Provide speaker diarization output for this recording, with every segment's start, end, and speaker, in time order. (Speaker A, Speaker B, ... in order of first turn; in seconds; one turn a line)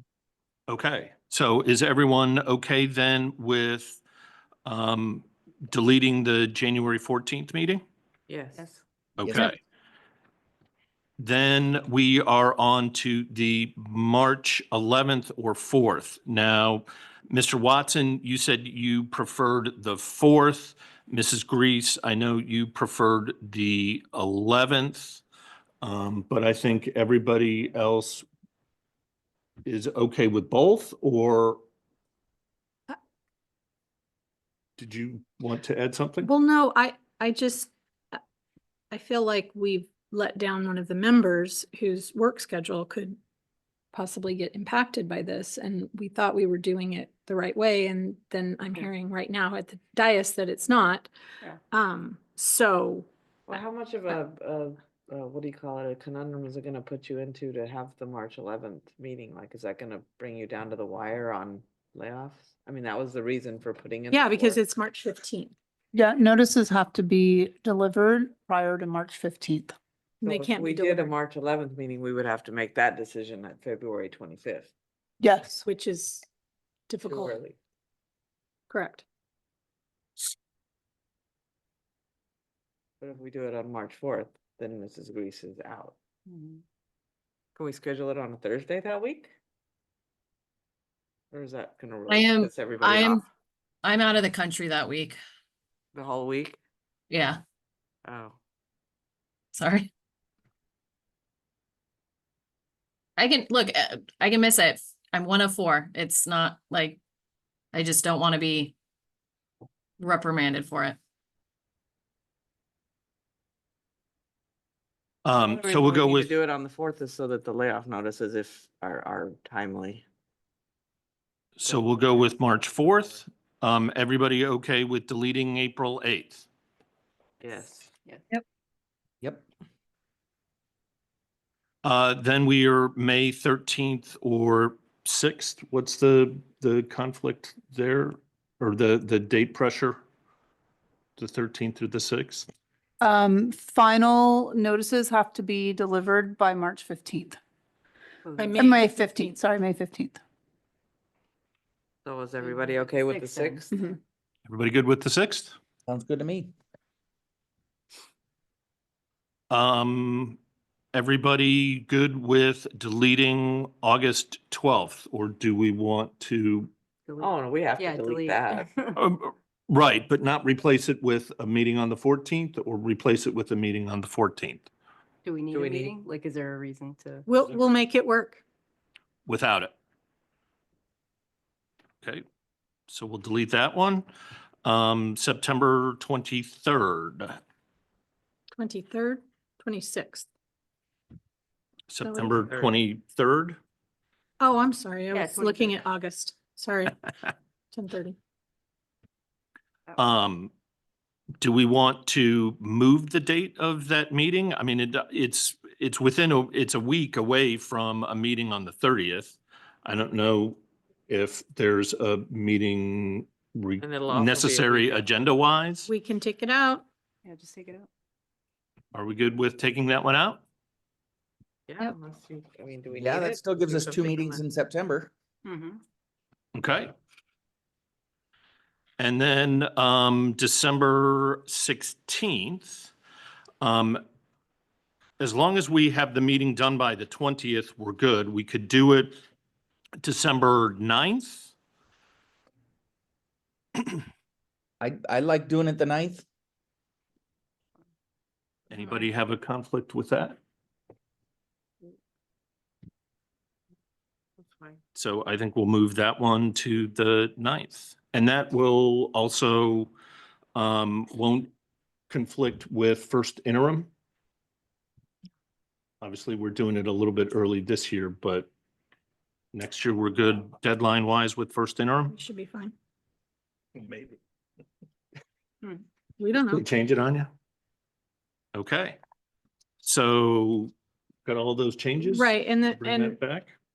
Speaker A: 0.7-4.0
Speaker A: 4.7-7.8
Speaker B: 8.3-8.8
Speaker A: 9.2-9.6
Speaker C: 9.2-9.5
Speaker A: 11.2-25.2
Speaker A: 25.8-28.3
Speaker A: 29.6-31.6
Speaker A: 34.8-36.3
Speaker D: 36.2-38.2
Speaker D: 38.9-43.2
Speaker D: 43.9-51.1
Speaker D: 51.7-53.1
Speaker B: 53.5-64.6
Speaker D: 64.1-65.5
Speaker E: 65.9-69.8
Speaker D: 70.2-71.1
Speaker B: 70.2-74.7
Speaker E: 75.2-75.6
Speaker D: 75.7-76.2
Speaker D: 76.9-77.4
Speaker B: 77.0-77.6
Speaker D: 78.7-79.0
Speaker B: 83.0-86.0
Speaker F: 86.3-86.6
Speaker B: 87.6-89.3
Speaker B: 91.3-93.2
Speaker G: 92.1-93.2
Speaker G: 93.8-95.2
Speaker B: 96.0-96.6
Speaker G: 97.1-97.4
Speaker B: 98.0-98.4
Speaker G: 99.6-99.9
Speaker G: 103.2-107.0
Speaker G: 107.7-108.7
Speaker G: 110.0-111.0
Speaker A: 115.2-116.3
Speaker B: 115.4-120.0
Speaker A: 121.6-126.5
Speaker B: 121.7-122.8
Speaker B: 127.4-127.9
Speaker A: 131.8-140.0
Speaker A: 141.2-142.5
Speaker E: 143.0-147.4
Speaker F: 148.2-148.5
Speaker D: 148.4-149.4
Speaker E: 148.6-150.2
Speaker B: 152.1-153.9
Speaker F: 152.4-153.7
Speaker A: 154.5-155.6
Speaker C: 155.9-156.5
Speaker A: 159.5-160.4
Speaker A: 160.9-166.7
Speaker F: 167.1-169.0
Speaker B: 167.2-168.7
Speaker A: 168.9-174.7
Speaker F: 175.2-177.3
Speaker B: 175.5-175.9
Speaker D: 177.3-178.4
Speaker A: 179.3-179.7
Speaker A: 182.9-184.1
Speaker A: 184.6-187.4
Speaker D: 188.6-190.3
Speaker A: 191.9-193.6
Speaker D: 192.0-192.6
Speaker D: 194.4-197.0
Speaker F: 195.1-195.9
Speaker D: 197.7-198.2
Speaker A: 200.0-200.5
Speaker A: 201.4-215.9
Speaker B: 213.8-215.0
Speaker D: 215.9-216.8
Speaker F: 217.2-217.9
Speaker A: 218.9-220.4
Speaker B: 221.7-224.4
Speaker C: 222.9-225.1
Speaker F: 225.4-225.8
Speaker A: 226.6-226.9
Speaker A: 229.0-232.9
Speaker A: 233.6-234.0
Speaker A: 235.2-239.2
Speaker A: 240.0-241.5
Speaker C: 244.8-246.2
Speaker A: 248.7-250.4
Speaker B: 254.4-254.8
Speaker A: 254.9-259.9
Speaker A: 260.6-261.5
Speaker A: 262.1-263.9
Speaker A: 266.0-268.5
Speaker A: 269.5-272.2
Speaker D: 272.1-272.7
Speaker A: 273.8-274.2
Speaker D: 276.2-276.6
Speaker A: 276.4-277.3
Speaker A: 278.6-279.0
Speaker A: 279.8-280.7
Speaker A: 281.2-283.5
Speaker D: 282.0-283.2